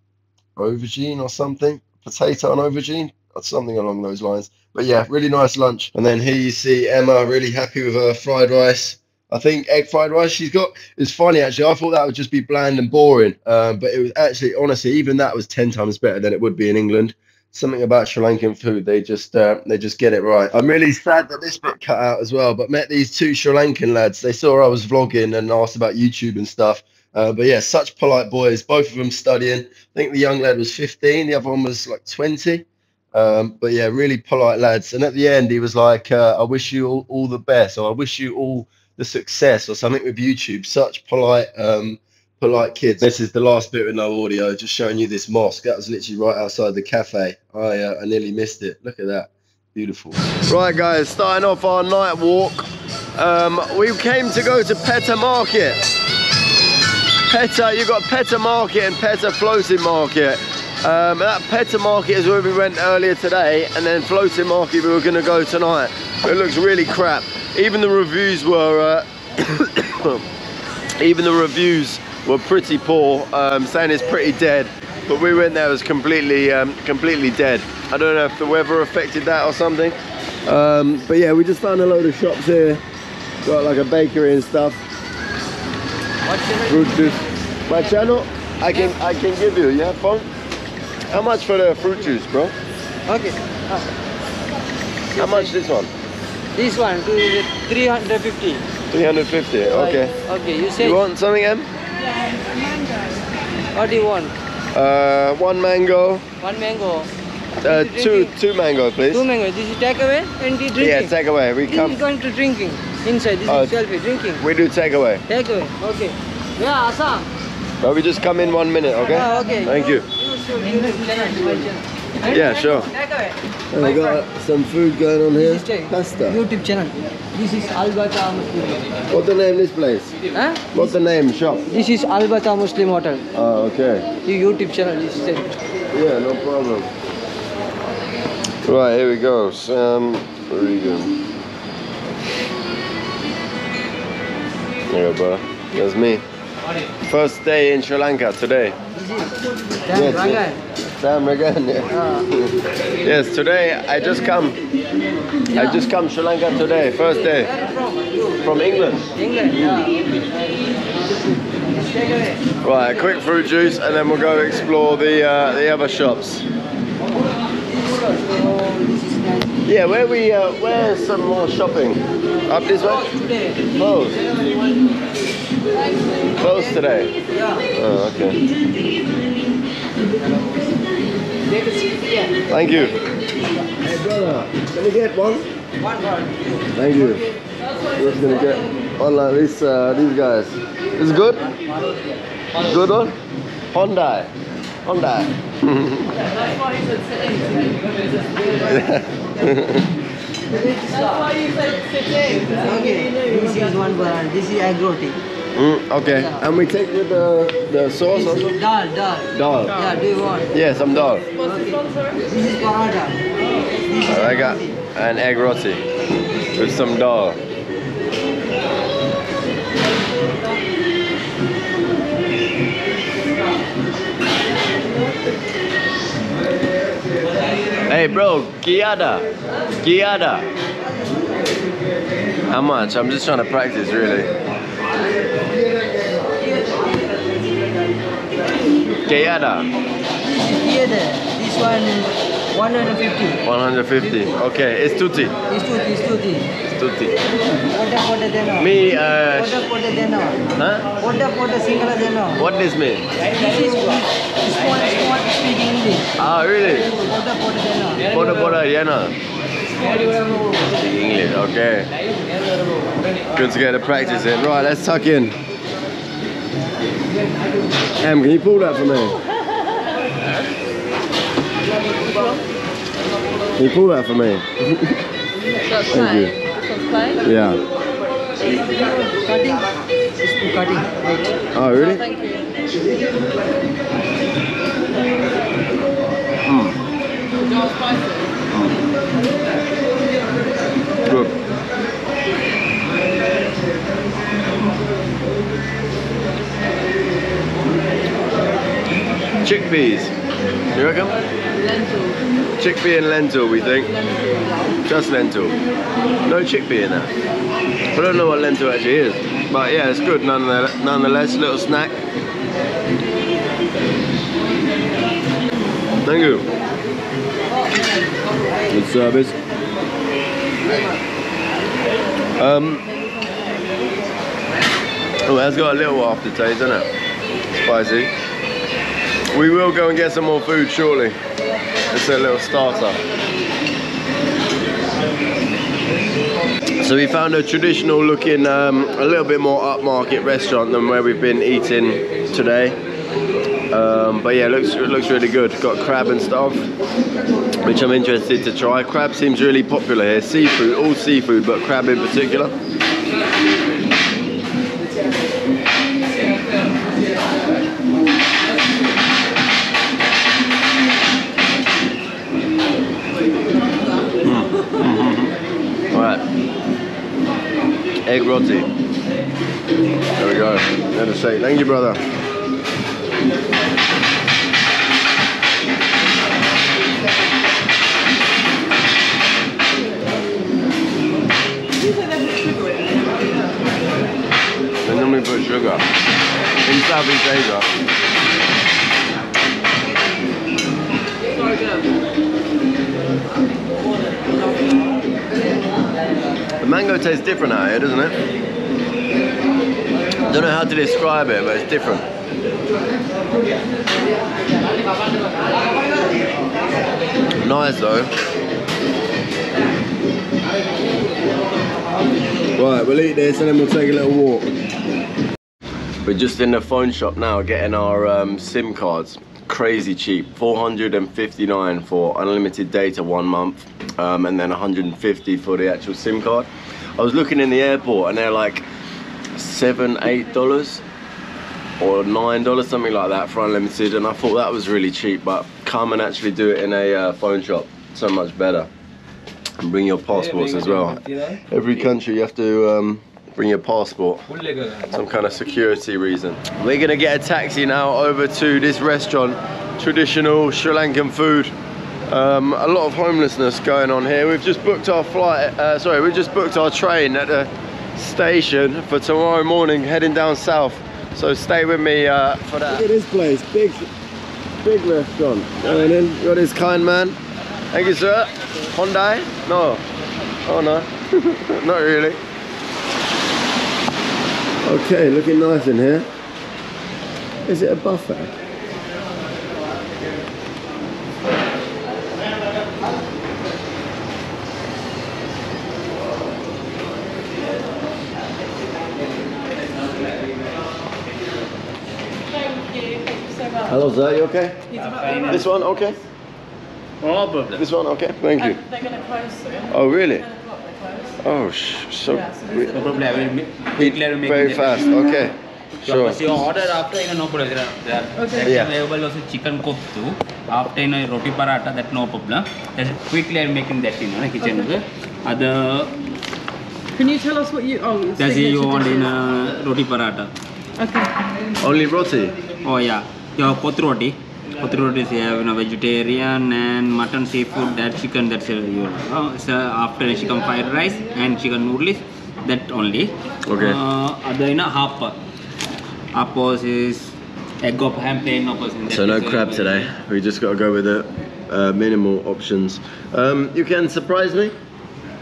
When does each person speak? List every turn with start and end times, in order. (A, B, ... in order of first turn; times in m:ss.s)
0:00.6-0:55.8 A
0:57.3-1:10.2 A
1:11.0-1:22.8 A
1:23.4-1:24.8 A
1:26.2-1:27.2 B
1:26.6-1:30.3 A
1:31.1-1:32.5 A
1:33.1-1:33.8 B
1:35.1-1:35.5 B
1:35.2-1:35.9 A
1:36.5-1:38.6 B
1:38.9-1:40.1 A
1:39.7-1:41.0 B
1:40.8-1:41.7 A
1:42.0-1:43.3 C
1:43.7-1:44.3 B
1:44.7-1:46.2 A
1:46.4-1:47.1 B
1:47.6-1:49.2 A
1:47.6-1:48.3 B
1:49.1-1:51.1 B
1:50.8-1:52.0 A
1:51.7-1:54.4 B
1:53.5-1:53.8 A
1:54.4-1:55.2 A
1:55.3-1:57.3 B
1:57.8-2:00.0 A
1:59.0-2:04.2 B
2:02.3-2:02.9 A
2:03.7-2:06.4 A
2:05.3-2:08.8 B
2:09.1-2:10.2 A
2:10.3-2:10.9 B
2:10.7-2:11.6 A
2:11.7-2:13.2 B
2:13.3-2:14.1 A
2:14.2-2:15.6 B
2:15.9-2:16.9 A
2:18.6-2:21.2 A
2:24.9-2:26.2 A
2:27.1-2:28.8 A
2:28.9-2:30.6 B
2:29.9-2:30.4 A
2:31.0-2:32.5 A
2:31.9-2:32.2 B
2:33.0-2:34.6 A
2:35.5-2:35.8 B
2:35.5-2:37.5 A
2:37.1-2:38.5 B
2:38.4-2:39.9 A
2:39.2-2:40.1 B
2:41.5-2:42.4 B
2:42.6-2:46.4 A
2:47.7-2:49.5 B
2:49.6-2:53.1 A
2:52.6-2:54.9 B
2:53.7-2:54.2 A
2:55.7-2:56.4 C
2:56.4-2:57.1 A
2:57.3-2:57.6 B
2:57.7-2:58.4 A
3:00.2-3:00.8 B
3:01.5-3:01.9 B
3:01.6-3:02.3 C
3:02.5-3:02.9 A
3:03.8-3:05.5 A
3:05.8-3:07.4 B
3:06.7-3:07.2 A
3:08.0-3:11.6 A
3:12.6-3:13.2 A
3:13.7-3:14.3 A
3:14.8-3:16.1 A
3:16.2-3:18.8 C
3:18.7-3:19.8 A
3:20.5-3:21.2 B
3:20.9-3:24.0 C
3:22.5-3:25.2 B
3:25.5-3:28.5 A
3:26.0-3:26.4 B
3:28.1-3:30.5 B
3:29.3-3:29.8 A
3:29.7-3:30.0 C
3:30.5-3:31.2 A
3:31.0-3:32.2 C
3:31.4-3:33.2 B
3:33.8-3:34.7 B
3:34.0-3:35.8 A
3:36.5-3:37.4 A
3:47.9-3:49.3 A
3:49.8-3:50.5 A
3:52.5-3:54.3 A
3:59.0-3:59.7 A
4:00.2-4:03.4 B
4:03.4-4:05.3 A
4:04.0-4:04.3 B
4:05.5-4:06.5 B
4:06.6-4:07.2 A
4:07.7-4:10.4 B
4:08.6-4:09.6 A
4:10.6-4:10.9 A
4:11.0-4:12.4 B
4:12.4-4:13.0 A
4:13.2-4:16.1 B
4:16.2-4:16.9 A
4:16.9-4:18.1 B
4:18.1-4:19.2 A
4:20.7-4:21.9 A
4:23.3-4:25.4 A
4:28.0-4:29.1 A
4:32.0-4:32.4 C
4:33.6-4:34.9 A
4:35.6-4:37.2 C
4:35.9-4:36.3 A
4:37.2-4:37.6 A
4:38.8-4:39.1 C
4:39.1-4:41.4 B
4:41.5-4:42.0 A
4:41.7-4:42.5 C
4:46.5-4:46.8 A
4:47.4-4:48.4 C
4:48.5-4:48.8 A
4:51.0-4:51.3 A
4:59.4-5:00.1 A
5:00.7-5:01.2 A
5:01.5-5:02.2 C
5:02.6-5:03.9 A
5:03.6-5:04.8 C
5:04.8-5:05.6 A
5:06.2-5:07.1 A
5:07.9-5:12.0 A
5:16.0-5:16.5 A
5:18.7-5:19.4 A
5:22.4-5:22.8 A
5:25.2-5:26.9 A
5:27.5-5:28.1 A
5:29.3-5:31.2 A
5:31.9-5:33.0 A
5:36.8-5:42.8 A
5:43.7-5:46.7 A
5:47.6-5:52.5 A
6:04.2-6:05.3 A
6:05.9-6:06.2 A
6:08.0-6:08.7 A
6:10.2-6:12.0 A
6:21.8-6:23.7 C
6:24.8-6:25.8 A
6:26.6-6:27.7 A
6:31.3-6:31.9 C
6:34.2-6:35.0 C
6:36.6-6:38.2 A
6:40.3-6:42.0 A
6:47.4-6:48.1 A
6:52.6-6:54.5 A
6:56.0-7:08.6 A
7:09.3-7:10.8 A
7:11.8-7:18.7 A
7:19.6-7:24.2 A
7:20.1-7:21.4 D
7:24.3-7:24.9 D
7:24.9-7:31.5 A
7:32.1-7:43.9 A
7:44.6-7:47.2 A
7:47.7-7:49.8 A
7:50.5-7:52.2 A
7:54.6-7:56.1 A
7:57.5-7:58.3 A
8:12.3-8:13.9 C
8:13.7-8:14.7 A
8:14.7-8:15.6 C
8:14.8-8:15.5 D
8:15.3-8:16.0 A
8:17.0-8:17.6 D
8:17.5-8:18.6 A
8:18.4-8:21.1 C
8:19.7-8:20.2 A
8:21.2-8:22.8 A
8:22.1-8:22.9 C
8:22.6-8:25.2 D
8:23.8-8:26.2 A
8:25.8-8:36.0 D
8:28.2-8:28.5 C
8:28.4-8:28.7 A
8:34.4-8:34.7 C
8:37.0-8:39.1 C
8:38.2-8:40.3 D
8:40.8-8:41.1 C
8:41.6-8:42.3 A
8:42.6-8:55.2 D
8:53.5-8:53.8 A
8:56.1-8:59.9 D
8:58.9-9:04.5 A